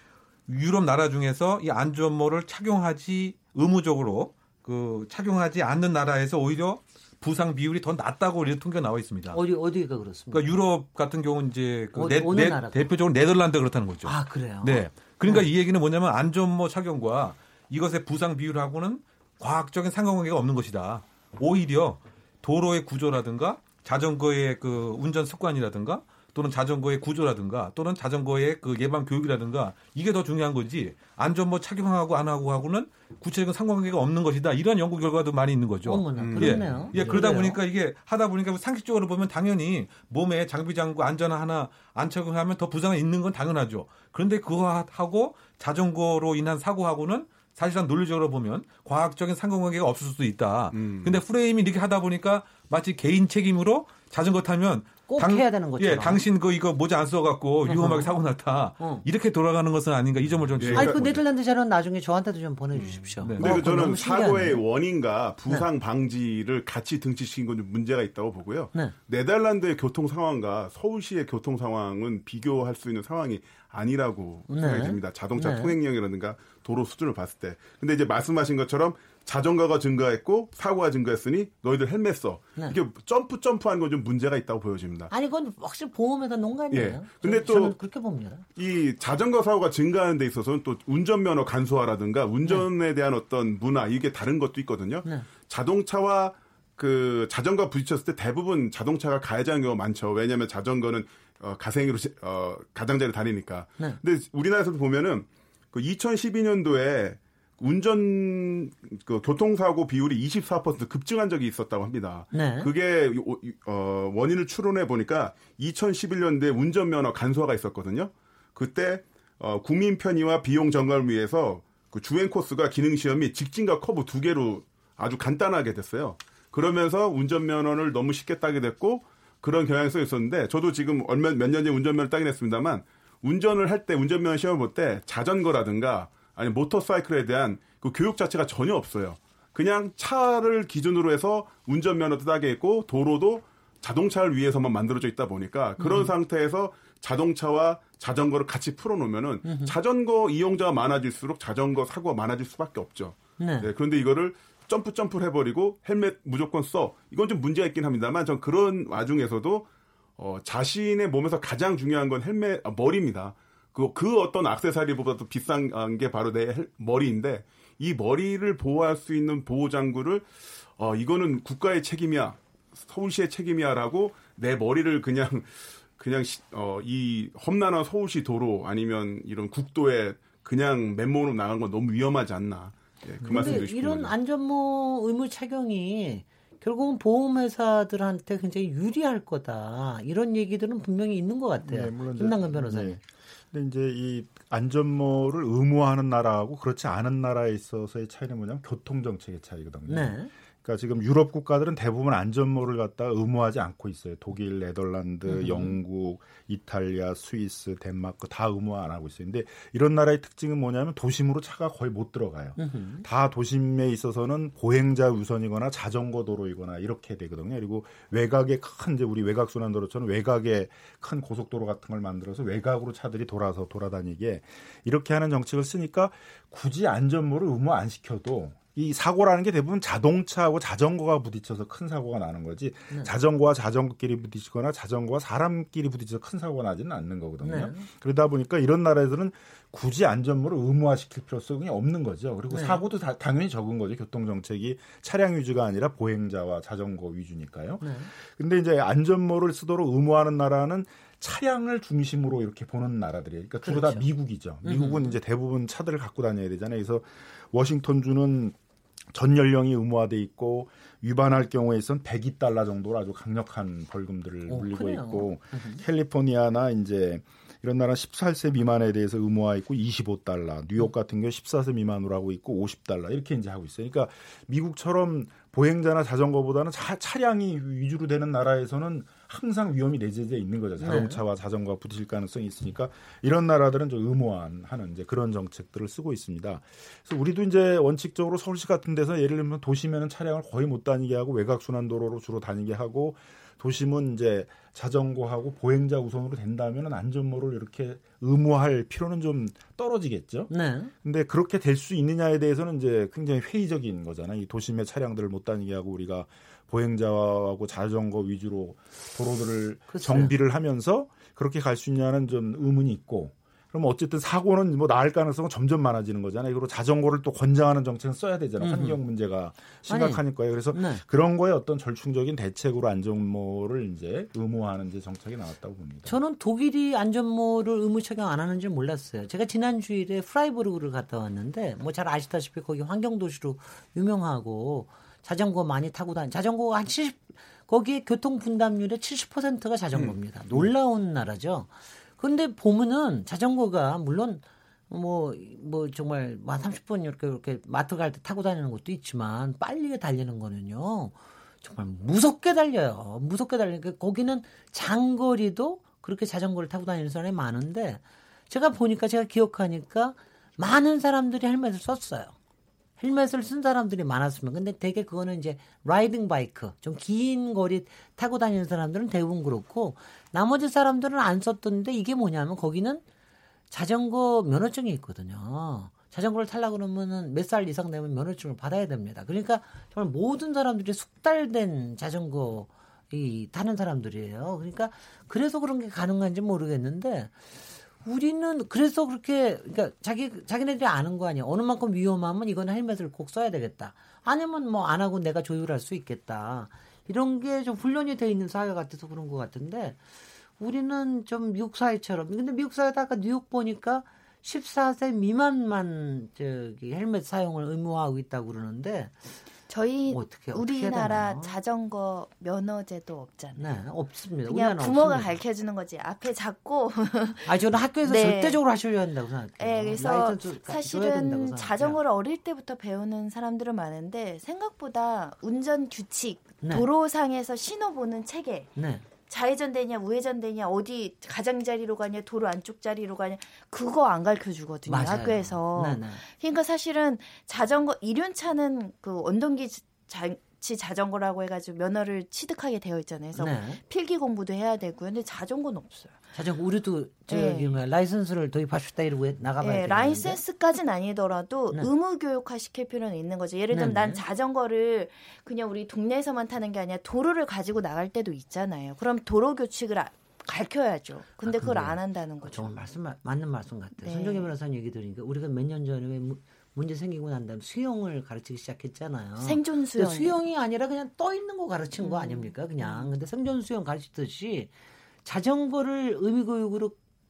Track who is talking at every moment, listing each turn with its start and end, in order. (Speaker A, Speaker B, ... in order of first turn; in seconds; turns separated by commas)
Speaker A: 0.5-9.4, Speaker B: 9.3-10.5, Speaker A: 10.3-61.2, Speaker B: 11.9-12.8, Speaker B: 14.0-15.5, Speaker B: 35.9-37.6, Speaker C: 36.1-37.2, Speaker C: 50.7-51.2, Speaker B: 55.1-56.2, Speaker B: 57.6-58.1, Speaker B: 58.8-59.0, Speaker C: 60.6-61.2, Speaker B: 60.7-64.6, Speaker C: 62.7-85.1, Speaker A: 63.2-63.7, Speaker B: 74.5-75.8, Speaker B: 85.1-88.4, Speaker C: 86.7-87.7, Speaker C: 88.5-159.7, Speaker B: 112.3-112.7, Speaker B: 145.8-146.1, Speaker B: 149.4-149.8, Speaker B: 153.4-153.7, Speaker C: 160.2-184.1, Speaker B: 183.2-193.0, Speaker D: 191.6-258.6, Speaker B: 199.9-200.3, Speaker B: 205.2-205.8, Speaker B: 212.6-213.0, Speaker B: 237.4-237.9, Speaker B: 242.5-242.8, Speaker B: 247.8-248.1, Speaker B: 253.6-254.1, Speaker B: 254.6-255.1, Speaker D: 259.1-300.5, Speaker B: 264.5-265.8, Speaker B: 280.8-281.2, Speaker B: 300.5-300.9, Speaker D: 301.0-326.2, Speaker B: 309.9-310.3, Speaker B: 318.6-319.0, Speaker B: 319.9-321.0, Speaker B: 326.1-362.3, Speaker C: 339.9-340.7, Speaker B: 363.0-373.0, Speaker B: 373.7-387.4, Speaker B: 388.0-400.0, Speaker B: 400.6-409.3, Speaker E: 409.7-413.8, Speaker B: 410.1-411.6, Speaker B: 413.6-415.3, Speaker E: 414.5-418.6, Speaker B: 417.4-422.0, Speaker E: 419.6-428.7, Speaker B: 428.8-429.0, Speaker E: 429.3-446.2, Speaker B: 434.9-436.2, Speaker B: 443.4-443.8, Speaker B: 446.3-450.4, Speaker E: 447.3-447.7, Speaker E: 449.6-462.7, Speaker B: 453.7-454.2, Speaker B: 461.4-474.7, Speaker E: 464.0-464.5, Speaker E: 469.4-470.4, Speaker E: 472.0-473.1, Speaker B: 475.2-477.0